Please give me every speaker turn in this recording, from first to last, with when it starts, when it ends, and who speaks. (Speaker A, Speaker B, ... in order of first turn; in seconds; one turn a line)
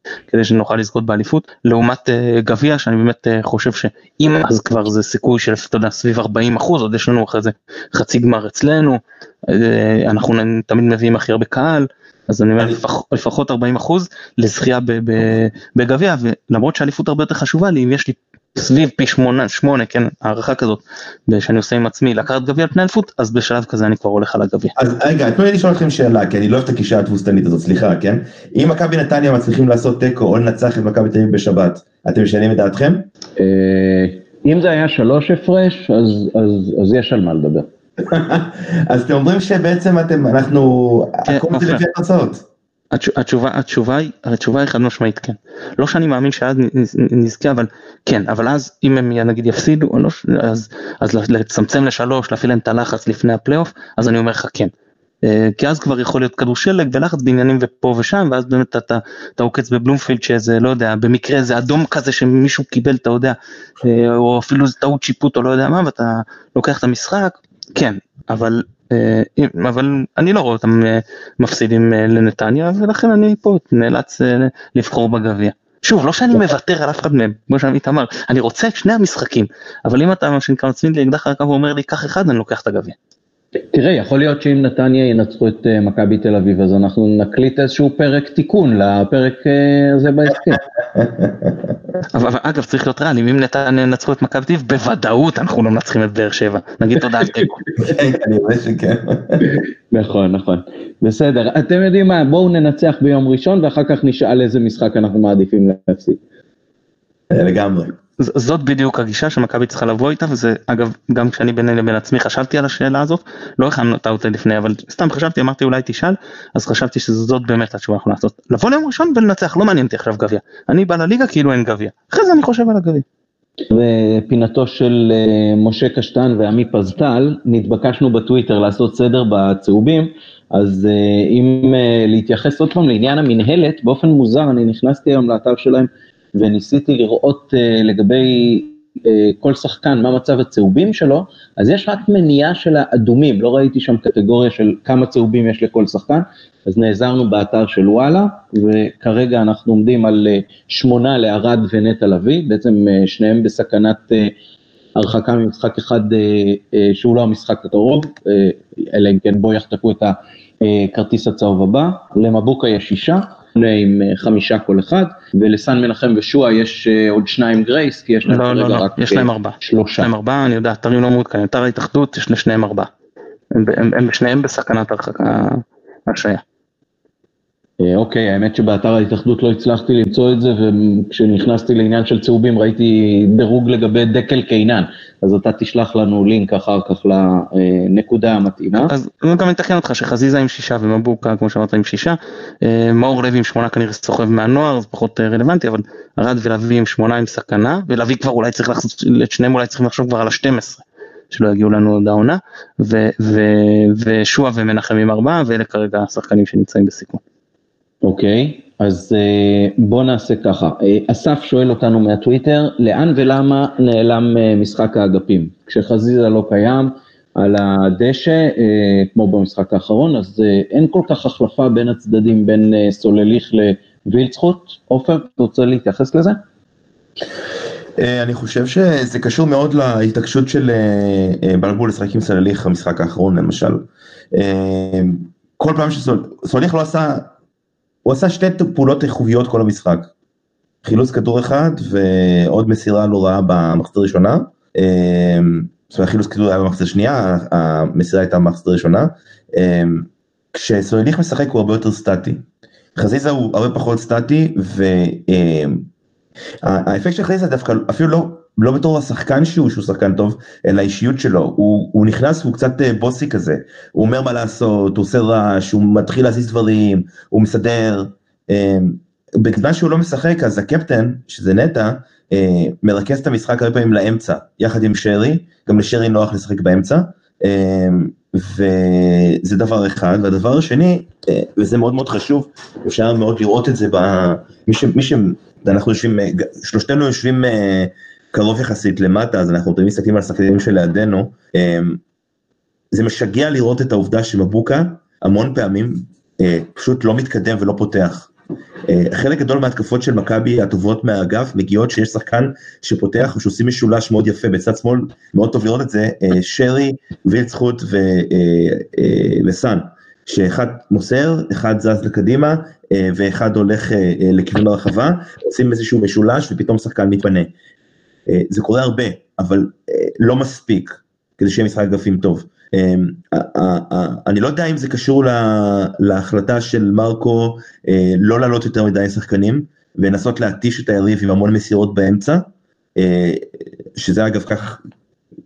Speaker A: 0.3-24.7
Speaker B: 24.8-33.1
Speaker C: 33.4-37.7
Speaker B: 38.0-42.5
Speaker A: 41.3-41.8
Speaker A: 42.9-54.7
Speaker A: 55.2-83.0
Speaker C: 83.7-90.6
Speaker B: 90.9-91.8
Speaker A: 92.1-97.6
Speaker B: 97.8-99.5
Speaker C: 99.9-106.2
Speaker B: 107.3-108.0
Speaker A: 108.2-123.0
Speaker C: 123.7-154.3
Speaker C: 155.0-170.1
Speaker A: 168.3-172.9
Speaker A: 173.5-176.4
Speaker C: 177.8-188.9
Speaker A: 188.8-207.2
Speaker C: 208.0-226.4
Speaker B: 228.0-237.3
Speaker B: 238.1-240.1
Speaker B: 240.8-252.4
Speaker B: 253.0-255.9
Speaker B: 256.6-292.0
Speaker B: 292.9-298.3
Speaker B: 298.9-317.5
Speaker B: 318.3-334.8